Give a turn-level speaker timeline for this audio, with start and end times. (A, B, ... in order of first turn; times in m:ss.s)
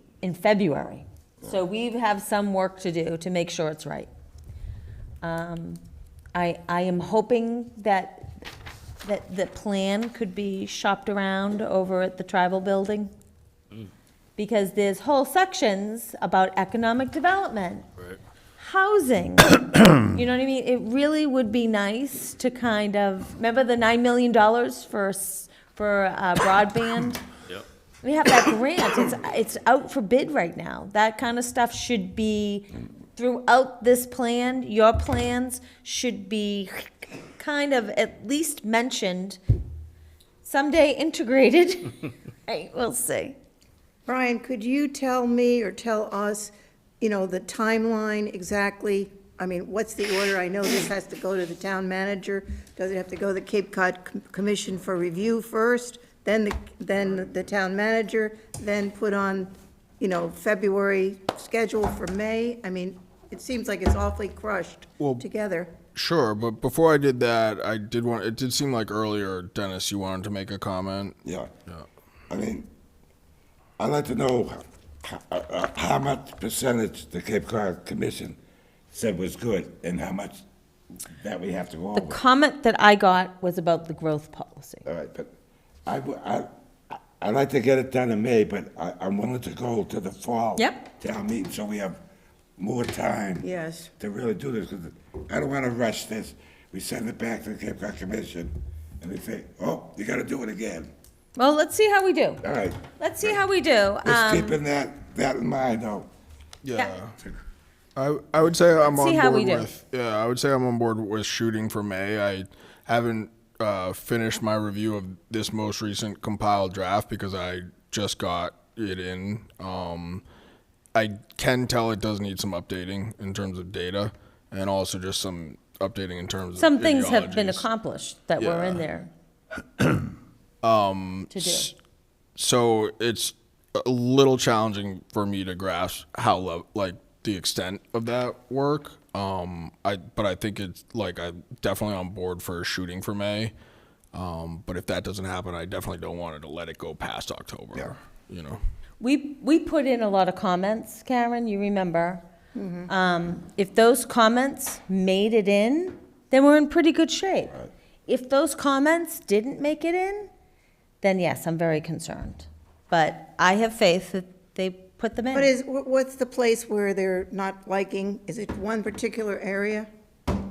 0:00.2-0:04.1 A
0:05.2-0:05.8 A
0:06.3-0:08.3 A
0:09.0-0:13.1 A
0:14.4-0:17.8 A
0:18.6-0:27.2 A
0:28.0-0:39.4 A
0:40.4-0:43.4 A
0:44.1-1:05.7 B
1:05.0-1:05.2 C
1:05.9-1:11.2 C
1:11.2-1:11.5 D
1:12.3-1:12.7 D
1:13.8-1:18.4 D
1:18.9-1:20.4 D
1:21.0-1:22.2 D
1:21.9-1:24.8 A
1:24.8-1:25.3 D
1:25.8-1:32.0 D
1:30.6-1:30.8 A
1:32.6-1:33.5 D
1:33.4-1:33.9 B
1:34.0-1:40.9 D
1:41.4-1:42.4 A
1:42.4-1:43.4 D
1:43.0-1:44.6 A
1:44.0-1:46.1 D
1:46.6-1:47.2 C
1:48.0-2:00.2 C
1:48.8-1:49.7 A
2:00.9-2:07.7 C
2:06.6-2:09.1 A
2:08.4-2:08.8 C
2:10.6-2:11.7 C
2:11.3-2:11.7 A
2:12.4-2:23.5 C
2:24.1-2:28.6 C
2:29.0-2:32.2 A
2:32.5-2:32.9 B
2:32.9-2:37.5 A
2:38.1-2:40.3 A
2:41.0-2:45.5 A
2:45.3-2:49.9 B